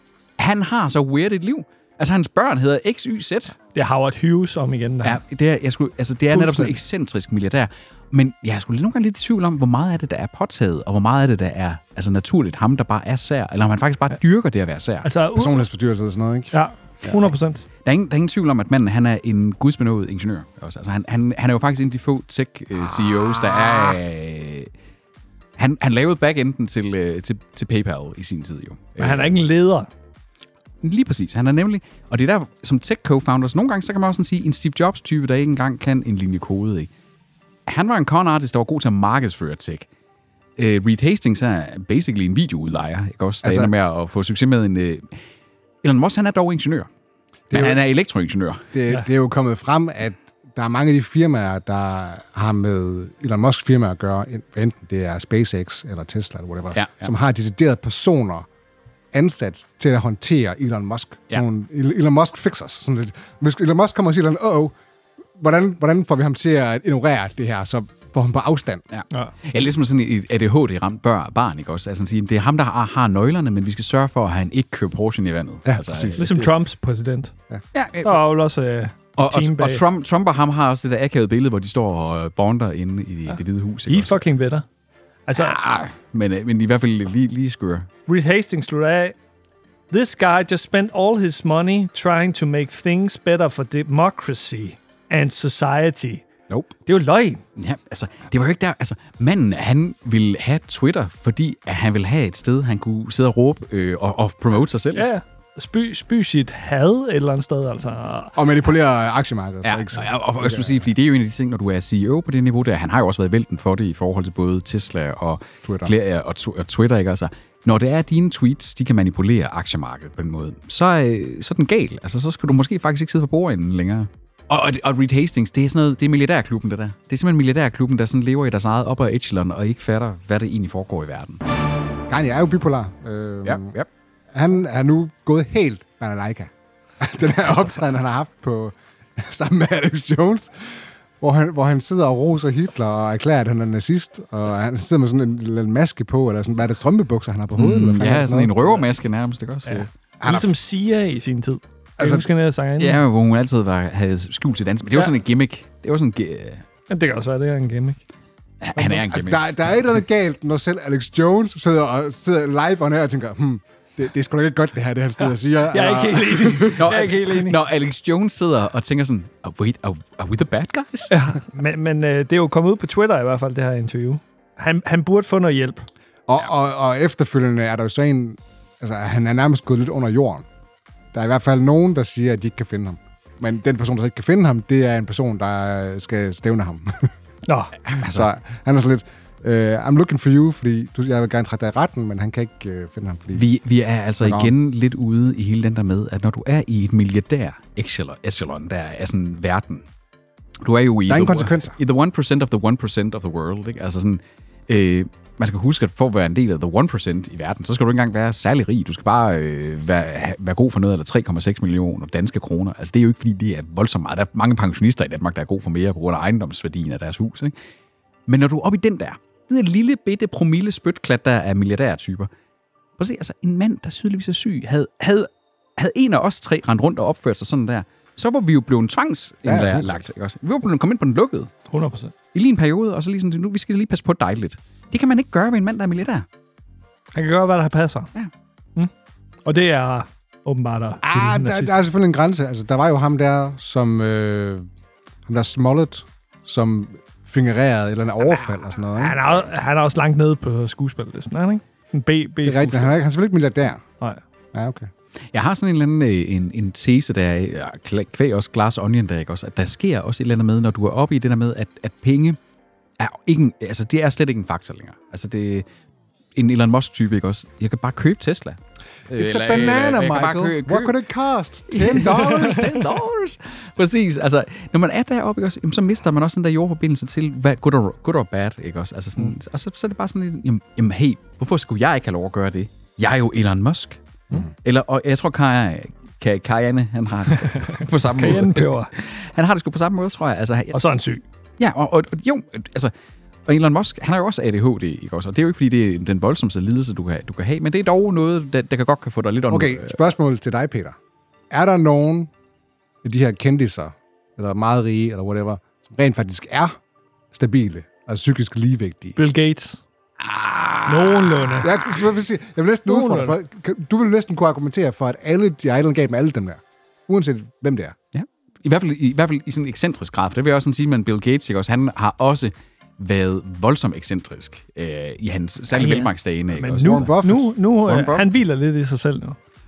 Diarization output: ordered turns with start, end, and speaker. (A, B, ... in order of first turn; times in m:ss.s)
0:00.4-0:03.6 A
0:03.8-0:05.2 B
0:05.0-0:15.1 A
0:06.3-0:06.8 B
0:15.0-0:15.6 B
0:15.4-0:16.5 C
0:16.5-0:17.6 B
0:17.8-0:24.7 A
0:23.0-0:23.8 C
0:25.6-0:29.4 A
0:29.0-0:29.9 B
0:30.8-0:36.9 A
0:37.7-0:39.9 A
0:40.6-0:45.2 A
0:43.4-0:43.7 C
0:45.8-0:46.9 A
0:47.5-0:47.8 C
0:47.5-0:48.7 A
0:48.7-0:58.5 C
0:56.7-0:57.1 A
0:59.1-1:04.7 C
1:05.4-1:08.8 C
1:08.9-1:16.5 A
1:15.7-1:16.4 C
1:16.2-1:17.3 B
1:17.7-1:18.3 A
1:18.0-1:19.8 B
1:19.2-1:24.3 A
1:23.9-1:24.7 B
1:25.3-1:25.6 B
1:25.3-1:27.9 A
1:28.1-1:29.2 B
1:29.9-1:36.3 B
1:36.9-1:37.4 B
1:37.6-1:45.1 A
1:44.9-1:48.4 B
1:48.4-1:50.8 C
1:49.6-2:11.4 A
1:55.6-1:55.9 C
2:12.1-2:13.7 C
2:13.4-2:13.9 A
2:14.3-2:20.5 C
2:21.2-2:28.8 C
2:27.6-2:29.9 A
2:29.7-2:33.0 B
2:30.2-2:30.5 C
2:32.0-2:32.3 C
2:32.8-2:36.6 A
2:36.9-2:38.0 B
2:38.6-2:39.4 A
2:38.8-2:46.9 C
2:45.7-2:47.6 B
2:46.8-2:51.1 A
2:51.1-2:55.9 B
2:56.3-3:00.4 C
3:01.1-3:07.1 C
3:07.5-3:07.7 B
3:07.9-3:08.3 A
3:08.0-3:13.5 C
3:13.3-3:19.9 A
3:14.2-3:14.5 C
3:20.6-3:37.5 A
3:21.1-3:21.8 C
3:38.3-3:42.3 A
3:43.0-3:51.5 A
3:49.4-3:50.0 C
3:51.7-3:52.1 B
3:52.3-3:56.3 A
3:57.1-3:58.1 B
3:59.5-4:01.8 B
4:01.0-4:04.7 C
4:05.3-4:09.4 C
4:08.3-4:12.9 B
4:12.4-4:13.8 C
4:14.5-4:14.9 C
4:15.3-4:22.4 A
4:23.0-4:25.7 A
4:26.4-4:31.0 A
4:29.1-4:32.8 C
4:31.7-4:50.8 A
4:32.3-4:32.6 B
4:47.4-4:48.9 B
4:50.7-4:51.2 B
4:51.6-4:52.9 A
4:53.5-5:00.0 A
4:59.5-5:01.0 C
5:01.5-5:02.3 C
5:03.0-5:06.8 C
5:07.3-5:09.2 C
5:09.2-5:09.8 B
5:10.2-5:11.5 A
5:10.9-5:11.7 B
5:11.6-5:18.0 C
5:12.9-5:13.4 B
5:18.1-5:27.1 A
5:25.7-5:29.4 B
5:26.8-5:27.5 C
5:27.9-5:28.3 A